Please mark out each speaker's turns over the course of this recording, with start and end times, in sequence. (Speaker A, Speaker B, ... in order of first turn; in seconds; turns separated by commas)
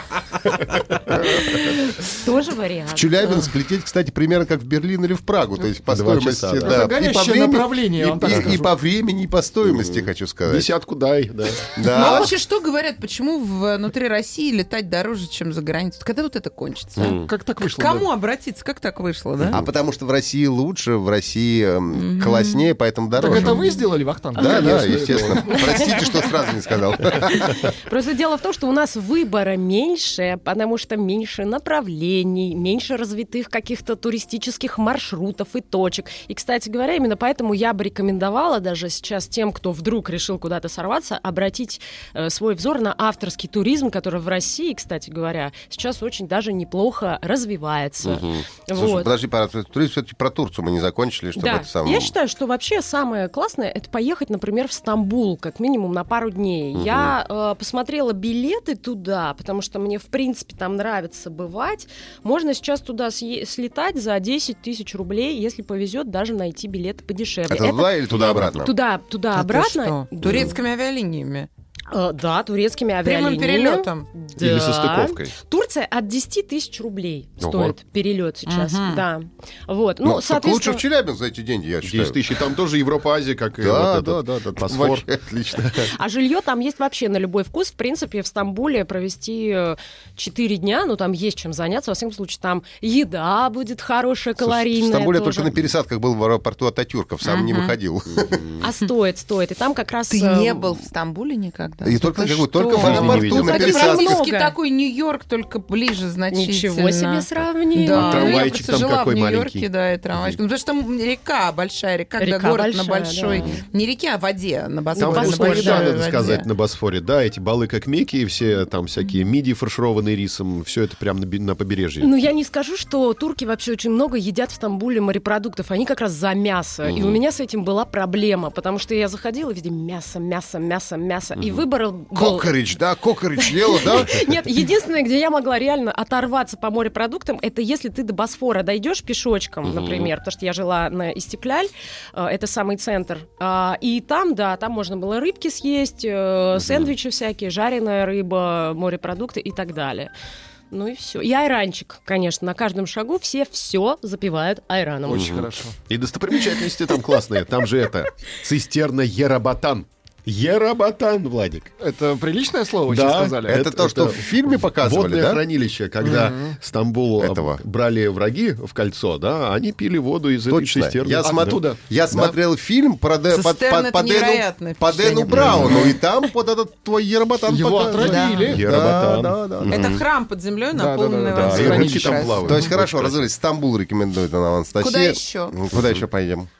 Speaker A: 0.7-1.1, Speaker B: 0.7-1.4, Speaker C: 1.2-3.5, Speaker A: 2.9-10.7, Speaker B: 5.9-6.9, Speaker D: 6.6-8.7, Speaker B: 9.7-11.8, Speaker A: 11.7-12.4, Speaker E: 11.9-19.6, Speaker B: 17.0-17.3, Speaker D: 17.1-18.1, Speaker A: 19.4-23.7, Speaker E: 21.9-22.6, Speaker D: 23.2-25.9, Speaker A: 24.3-27.7, Speaker C: 24.4-24.7, Speaker B: 24.6-25.4, Speaker C: 25.4-26.3, Speaker C: 27.1-49.1, Speaker B: 48.0-48.4, Speaker A: 48.7-52.1, Speaker C: 51.4-70.5, Speaker B: 56.8-57.1, Speaker A: 67.5-68.7, Speaker B: 68.1-68.6, Speaker E: 69.3-71.5, Speaker C: 71.9-80.8, Speaker E: 73.0-74.1, Speaker B: 74.3-75.3, Speaker B: 77.4-77.8, Speaker E: 78.5-79.0, Speaker A: 80.0-82.5, Speaker B: 81.8-85.0, Speaker A: 83.6-85.9, Speaker C: 85.8-95.5, Speaker A: 94.4-98.5, Speaker E: 97.2-97.8, Speaker B: 98.1-98.5, Speaker C: 98.6-100.6, Speaker E: 100.1-116.5, Speaker A: 101.8-104.2, Speaker B: 102.7-103.7, Speaker C: 102.9-104.5, Speaker C: 106.3-108.4, Speaker B: 107.9-110.3, Speaker C: 112.2-113.6, Speaker B: 113.3-113.6, Speaker B: 115.0-122.1, Speaker C: 115.0-115.9, Speaker C: 122.0-132.5, Speaker B: 126.8-127.2, Speaker B: 131.4-131.6, Speaker A: 132.1-134.3, Speaker C: 133.4-150.1, Speaker B: 139.6-140.1, Speaker B: 146.5-146.9, Speaker C: 150.7-155.4, Speaker D: 155.0-155.8, Speaker B: 155.1-161.7, Speaker D: 161.8-163.6, Speaker B: 162.8-172.3, Speaker A: 163.4-165.4, Speaker D: 166.2-166.5, Speaker A: 167.2-167.6, Speaker A: 170.5-180.0, Speaker D: 171.2-171.8, Speaker E: 173.3-176.0, Speaker B: 175.3-175.9, Speaker D: 177.5-178.6, Speaker E: 177.9-178.5, Speaker B: 178.4-180.0, Speaker E: 179.7-182.5, Speaker D: 180.7-182.5, Speaker B: 181.3-183.2, Speaker A: 182.4-186.5, Speaker E: 184.8-185.6